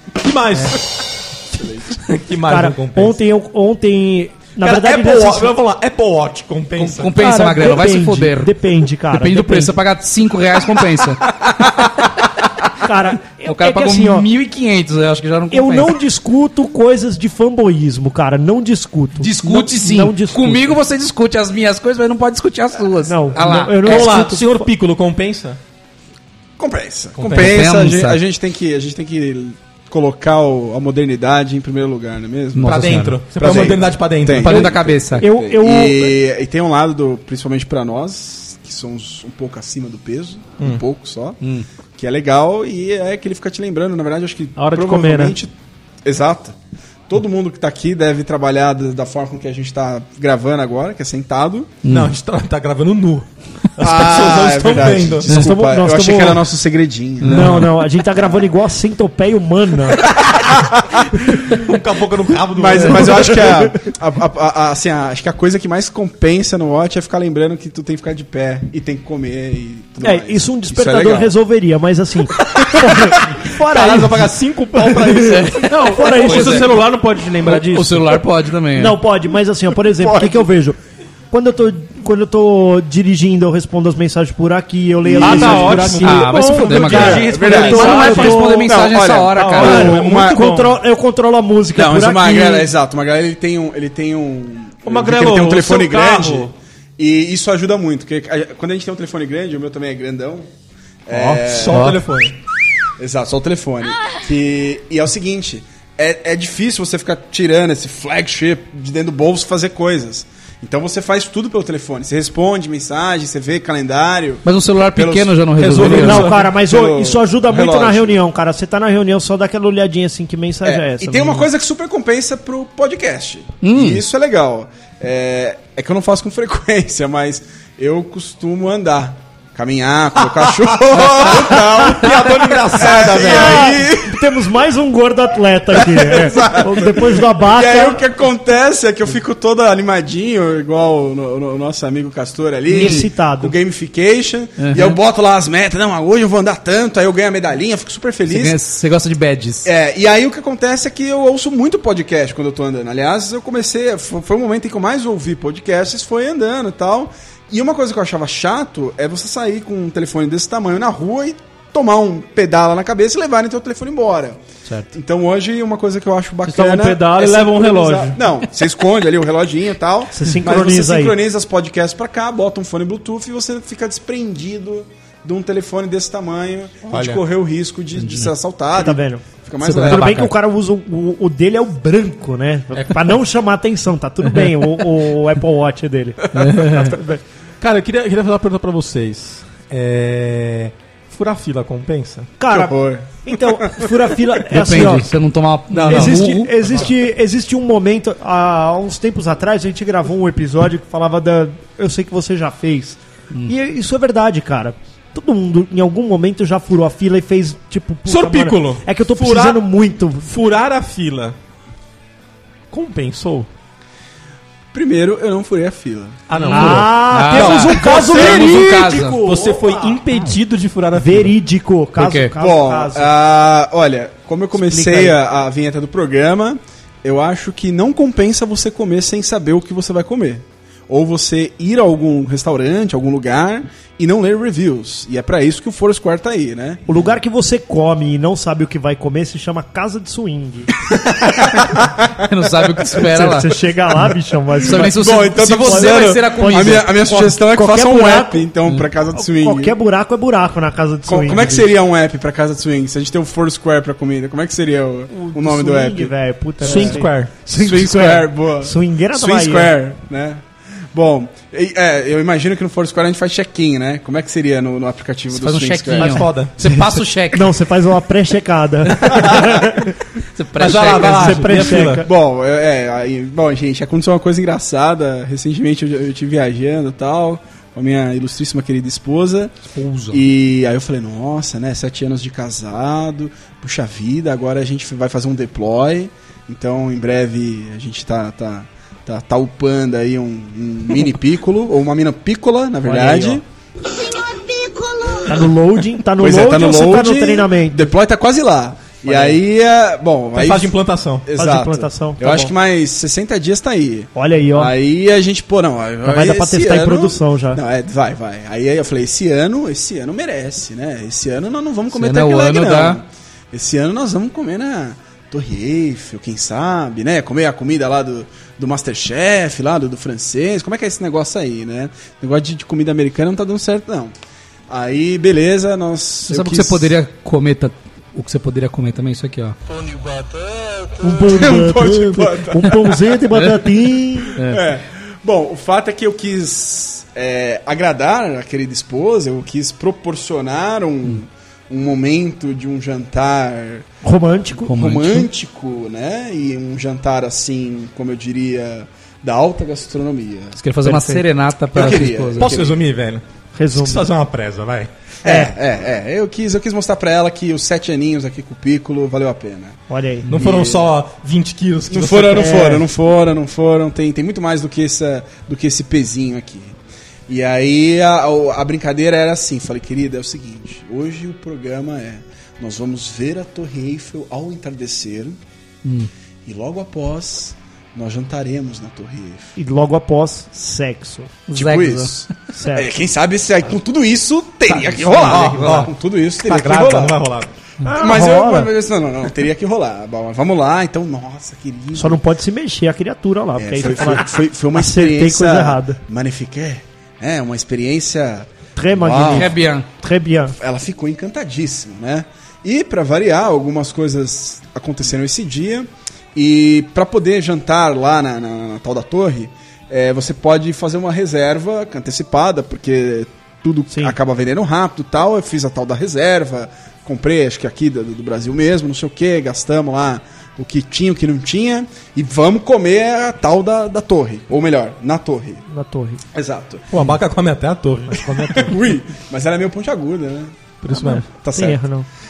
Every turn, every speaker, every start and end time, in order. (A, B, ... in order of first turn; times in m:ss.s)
0:00.1-0:01.0 A
0:01.5-0:02.0 B
0:01.9-0:03.2 A
0:02.5-0:05.6 C
0:04.6-0:07.2 A
0:06.8-0:12.3 D
0:07.2-0:09.8 C
0:12.8-0:14.3 C
0:13.4-0:16.0 D
0:15.5-0:20.7 C
0:19.2-0:24.1 D
0:23.1-0:24.7 C
0:23.8-0:25.6 A
0:26.6-0:41.4 B
0:27.1-0:27.7 A
0:27.3-0:28.2 D
0:32.5-0:33.2 D
0:32.6-0:34.6 A
0:34.4-0:35.3 D
0:34.5-0:36.2 C
0:41.4-0:41.6 D
0:42.0-0:45.5 B
0:44.6-0:45.4 E
0:46.0-0:46.6 B
0:47.1-0:51.8 B
0:51.8-0:52.1 D
0:51.9-0:55.3 A
0:53.8-0:57.6 B
0:55.3-0:56.4 C
0:57.2-0:57.7 D
0:57.3-1:00.1 C
1:00.0-1:01.6 B
1:01.4-1:03.6 A
1:02.5-1:11.4 B
1:03.2-1:03.6 C
1:10.0-1:15.3 C
1:12.5-1:13.3 B
1:13.3-1:16.4 A
1:15.2-1:16.8 D
1:15.6-1:18.1 E
1:15.9-1:16.6 C
1:17.4-1:19.0 D
1:18.8-1:20.8 C
1:20.0-1:20.5 B
1:21.3-1:28.7 C
1:25.0-1:26.0 B
1:25.2-1:28.6 E
1:25.2-1:27.2 A
1:25.9-1:30.0 D
1:27.0-1:30.4 B
1:29.4-1:30.7 E
1:29.6-1:32.7 C
1:31.7-1:40.5 B
1:34.8-1:36.5 E
1:41.1-1:41.9 B
1:41.2-1:42.4 A
1:41.7-1:42.0 D
1:43.0-1:58.2 B
1:54.4-1:56.3 D
1:55.6-1:56.5 A
1:55.8-2:01.5 C
2:00.6-2:14.5 B
2:03.6-2:04.0 D
2:10.9-2:13.8 A
2:13.1-2:18.0 C
2:15.8-2:28.6 B
2:22.7-2:23.5 C
2:22.8-2:23.1 D
2:24.6-2:25.0 D
2:28.3-2:29.7 D
2:29.6-2:44.4 B
2:44.9-3:00.3 B
2:46.5-2:48.2 E
2:50.1-2:51.2 C
2:56.9-2:57.2 D
2:58.0-2:58.3 D
2:58.8-3:06.2 C
2:59.6-3:00.3 D
3:06.2-3:06.9 B
3:06.3-3:07.0 D
3:06.8-3:07.2 C
3:07.6-3:12.3 A
3:12.4-3:15.2 C
3:12.5-3:14.0 B
3:14.5-3:16.8 D
3:15.7-3:30.3 C
3:28.1-3:29.6 A
3:30.2-3:31.4 A
3:32.7-3:33.5 A
3:34.7-3:36.8 B
3:36.3-3:41.4 A
3:36.4-3:39.2 D
3:36.5-3:40.2 C
3:41.0-3:43.1 C
3:42.0-3:42.3 D
3:42.4-3:56.8 B
3:44.5-3:45.2 C
3:56.9-4:00.7 C
4:01.2-4:01.7 B
4:02.2-4:03.6 D
4:02.9-4:08.5 C
4:04.6-4:06.9 D
4:04.7-4:09.8 B
4:09.1-4:11.7 C
4:11.1-4:17.0 B
4:15.1-4:19.7 C
4:16.6-4:17.3 A
4:17.6-4:26.2 B
4:25.3-4:27.5 D
4:26.0-4:26.5 A
4:26.0-4:29.9 C
4:30.3-4:31.8 D
4:30.6-4:32.0 A
4:30.7-4:32.1 C
4:32.0-4:39.6 B
4:39.7-4:40.2 D
4:40.1-4:53.4 B
4:52.8-4:53.4 C
4:55.3-4:57.9 C
4:56.2-5:24.1 B
5:00.3-5:01.3 A
5:01.4-5:02.5 C
5:04.1-5:04.7 C
5:06.0-5:07.6 C
5:11.9-5:13.0 D
5:24.7-5:27.0 B
5:26.3-5:29.6 D
5:31.0-5:34.4 C
5:31.2-5:33.0 B
5:34.4-5:34.6 D
5:34.4-5:43.9 B
5:44.0-5:44.7 C
5:44.7-5:45.3 D
5:44.7-5:50.6 B
5:50.6-5:52.5 D
5:50.8-5:51.2 C
5:51.7-5:52.8 B
5:52.4-5:54.9 A
5:53.6-5:54.1 C
5:55.2-5:55.5 C
5:55.2-6:00.9 B
5:59.9-6:00.3 C
6:00.3-6:02.7 A
6:01.9-6:06.8 B
6:02.3-6:02.8 C
6:07.3-6:15.4 B
6:15.8-6:16.1 D
6:16.5-6:19.5 B
6:19.6-6:21.5 C
6:21.5-6:22.1 D
6:21.5-6:27.2 B
6:22.5-6:23.0 C
6:24.7-6:25.9 D
6:25.1-6:27.5 A
6:27.8-6:28.7 C
6:27.9-6:32.2 B
6:32.0-6:36.0 C
6:33.6-6:39.5 B
6:38.8-6:40.6 C
6:39.3-6:39.9 D
6:40.6-7:05.6 B
7:05.7-7:06.2 C
7:06.3-7:06.9 B
7:06.9-7:08.7 A
7:08.4-7:11.8 B
7:10.8-7:11.2 A
7:11.1-7:12.1 C